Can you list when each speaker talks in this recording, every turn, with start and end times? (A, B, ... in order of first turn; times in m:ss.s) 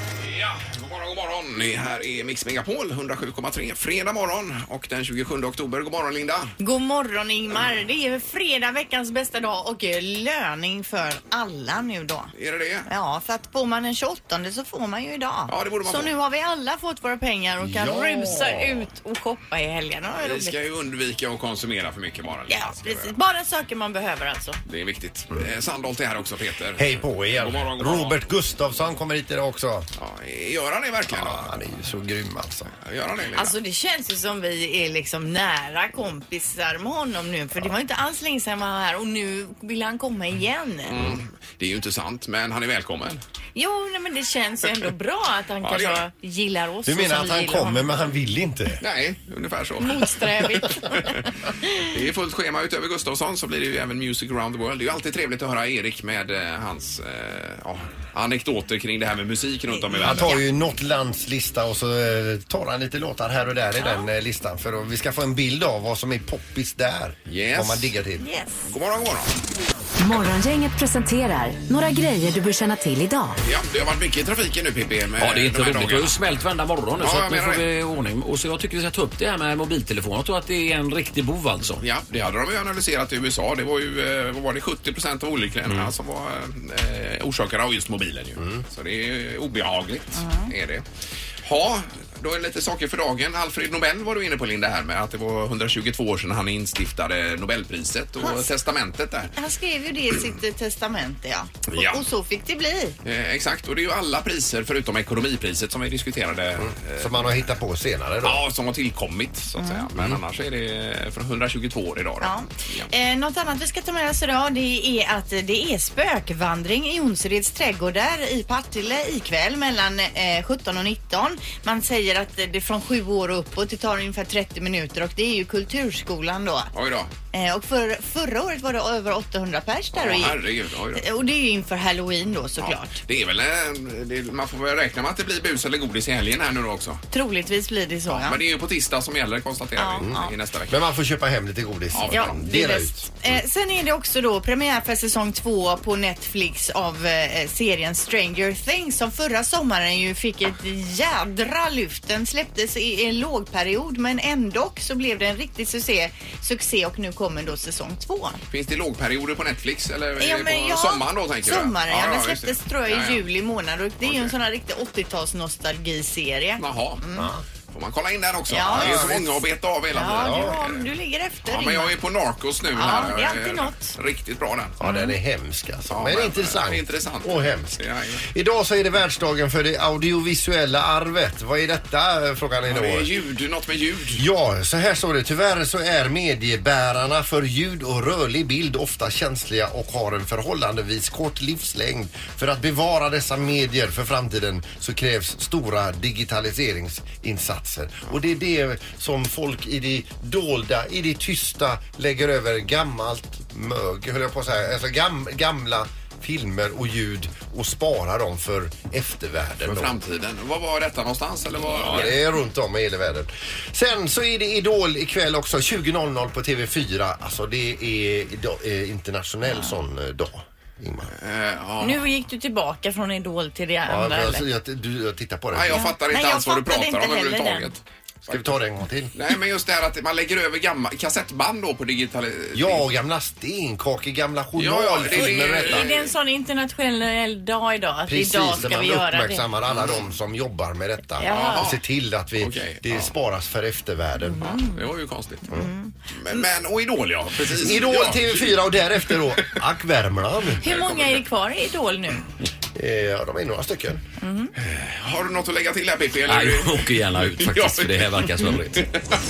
0:00.2-0:06.5 A
0:06.6-0:12.3 B
0:12.4-0:12.9 A
0:12.9-0:20.6 B
0:15.5-0:16.1 A
0:17.6-0:18.9 C
0:20.2-0:23.1 A
0:22.5-0:24.6 B
0:24.6-0:28.2 A
0:26.8-0:29.9 C
0:30.0-0:31.6 A
0:31.1-0:32.7 C
0:32.7-0:33.6 A
0:33.4-0:41.0 B
0:40.9-0:43.2 A
0:43.6-0:47.9 B
0:45.6-0:46.0 A
0:46.8-0:48.8 C
0:48.8-0:51.2 A
0:49.8-0:51.1 B
0:51.8-1:00.4 A
0:59.7-1:00.4 B
1:00.0-1:08.3 C
1:07.3-1:08.0 A
1:08.2-1:08.6 B
1:08.6-1:09.3 A
1:10.0-1:13.4 D
1:13.4-1:16.2 A
1:15.2-1:21.8 E
1:17.0-1:17.6 A
1:21.8-1:30.8 A
1:28.4-1:28.6 C
1:30.2-1:30.5 B
1:31.4-1:39.3 A
1:38.2-1:38.5 B
1:39.4-1:43.0 B
1:41.7-1:42.0 A
1:43.0-1:47.5 A
1:46.6-1:48.4 C
1:48.2-1:52.9 A
1:49.6-1:49.9 B
1:52.2-2:06.7 B
2:06.7-2:07.1 A
2:07.3-2:10.4 B
2:10.0-2:11.0 A
2:11.0-2:13.0 B
2:12.6-2:17.0 A
2:17.1-2:18.4 B
2:18.1-2:20.8 A
2:19.8-2:20.3 B
2:20.7-2:23.1 C
2:21.9-2:22.5 A
2:22.0-2:38.4 B
2:38.5-2:43.2 A
2:40.2-2:47.3 B
2:44.0-2:44.3 A
2:46.6-2:47.0 A
2:47.2-2:47.4 C
2:47.7-2:50.9 A
2:48.5-2:49.1 B
2:48.7-2:49.4 C
2:49.9-2:51.9 B
2:50.1-2:50.6 C
2:51.4-2:54.8 A
2:52.7-2:53.9 B
2:54.8-3:03.1 C
2:54.8-2:55.1 B
2:55.9-2:58.2 A
3:02.7-3:04.2 A
3:04.2-3:30.0 C
3:29.6-3:32.2 A
3:31.7-3:41.1 C
3:41.2-3:42.0 A
3:41.8-3:44.4 B
3:43.9-3:45.9 C
3:45.5-3:48.6 A
3:45.7-3:47.7 B
3:48.3-3:49.1 C
3:49.2-3:52.8 A
3:52.6-3:55.9 C
3:54.6-3:56.1 A
3:55.1-3:59.5 B
3:58.1-4:04.4 C
4:01.2-4:01.6 B
4:01.2-4:01.8 A
4:02.4-4:03.1 A
4:04.2-4:04.8 B
4:04.4-4:05.6 A
4:05.5-4:06.4 B
4:06.1-4:09.5 A
4:07.4-4:10.6 C
4:10.6-4:12.2 B
4:10.6-4:11.2 A
4:12.8-4:14.0 C
4:14.2-4:14.5 B
4:14.6-4:18.9 A
4:16.3-4:18.9 E